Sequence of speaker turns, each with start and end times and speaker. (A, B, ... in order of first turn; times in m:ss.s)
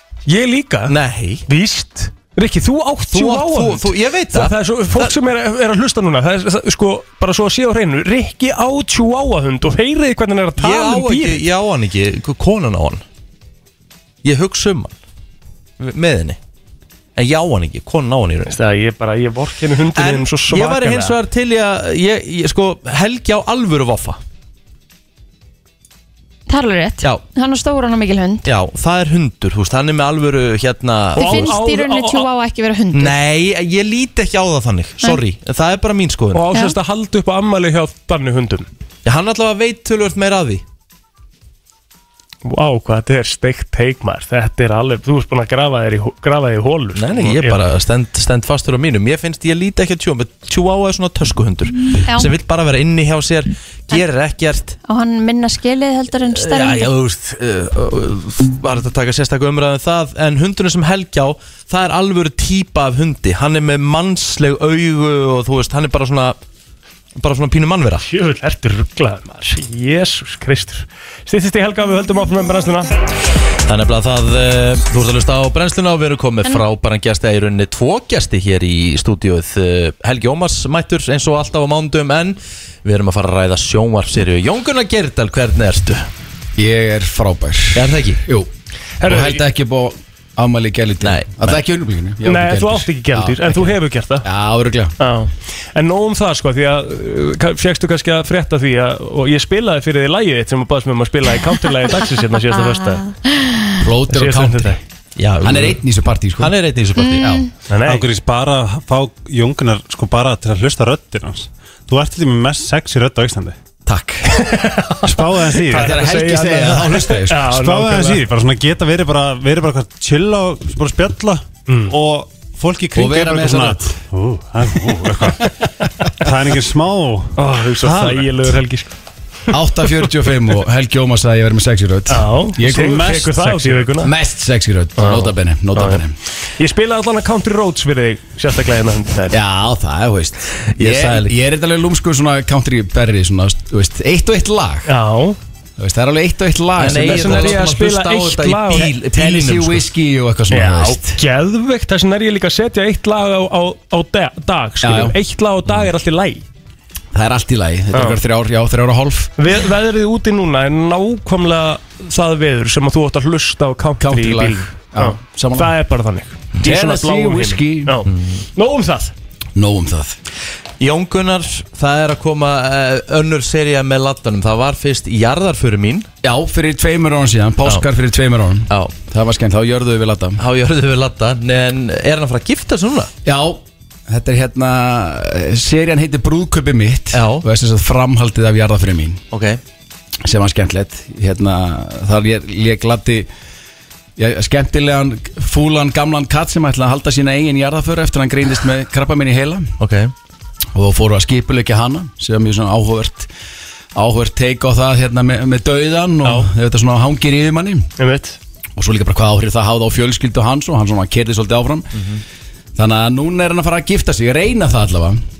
0:00.3-0:01.0 A
0:00.9-0:01.4 B
0:01.5-0:11.4 A
0:03.1-0:05.2 B
0:10.6-0:13.0 B
0:14.2-0:14.9 B
0:15.8-0:16.4 B
0:17.2-0:18.6 B
0:18.5-0:21.2 A
0:19.9-0:24.2 B
0:26.5-0:28.5 C
0:28.4-0:31.6 B
0:31.2-0:33.2 C
0:31.2-0:32.3 A
0:32.9-0:36.4 B
0:36.3-0:38.7 A
0:39.0-0:40.6 B
0:42.4-0:47.6 A
0:46.9-0:54.8 B
0:52.0-0:52.3 C
0:54.8-0:56.9 C
0:56.3-1:06.4 B
1:07.2-1:08.1 B
1:08.0-1:12.9 A
1:13.6-1:26.1 B
1:26.6-1:28.5 D
1:27.7-1:28.2 B
1:29.0-1:29.4 A
1:29.0-1:34.9 D
1:31.0-1:31.6 B
1:32.2-1:34.3 A
1:35.0-1:43.1 A
1:42.8-1:43.8 C
1:43.8-1:44.8 D
1:44.1-1:44.8 A
1:45.2-1:45.8 B
1:45.4-1:46.5 D
1:46.4-1:47.4 B
1:47.0-1:47.5 C
1:47.7-1:48.0 A
1:47.8-1:53.6 E
1:53.8-1:54.6 D
1:54.3-1:55.1 A
1:55.0-1:56.0 E
1:55.6-1:58.2 A
1:55.7-1:57.4 D
1:57.4-2:05.5 E
2:02.9-2:04.0 D
2:06.1-2:08.6 E
2:07.4-2:08.9 A
2:09.5-2:13.3 D
2:12.1-2:14.1 A
2:12.6-2:14.0 E
2:14.0-2:16.1 D
2:15.0-2:16.0 A
2:16.6-2:19.4 A
2:19.3-2:24.9 D
2:20.8-2:21.3 B
2:24.8-2:25.4 A
2:25.8-2:27.7 D
2:26.8-2:29.8 B
2:26.8-2:29.0 A
2:29.0-2:31.2 D
2:30.5-2:36.4 A
2:34.8-2:35.2 D
2:37.1-2:39.3 D
2:37.9-2:38.2 A
2:39.4-2:49.1 A
2:44.0-2:45.7 D
2:46.6-2:48.0 D
2:48.0-2:48.4 B
2:49.6-2:50.2 D
2:50.8-2:56.1 B
2:56.2-3:00.4 D
2:58.7-2:58.9 B
3:00.4-3:03.1 B
3:03.2-3:09.2 D
3:07.1-3:07.4 B
3:09.3-3:09.6 B
3:10.2-3:13.3 D
3:14.2-3:19.7 D
3:19.8-3:20.1 B
3:20.7-3:23.3 D
3:23.9-3:27.9 D
3:28.0-3:28.4 A
3:28.8-3:31.9 D
3:32.8-3:35.2 D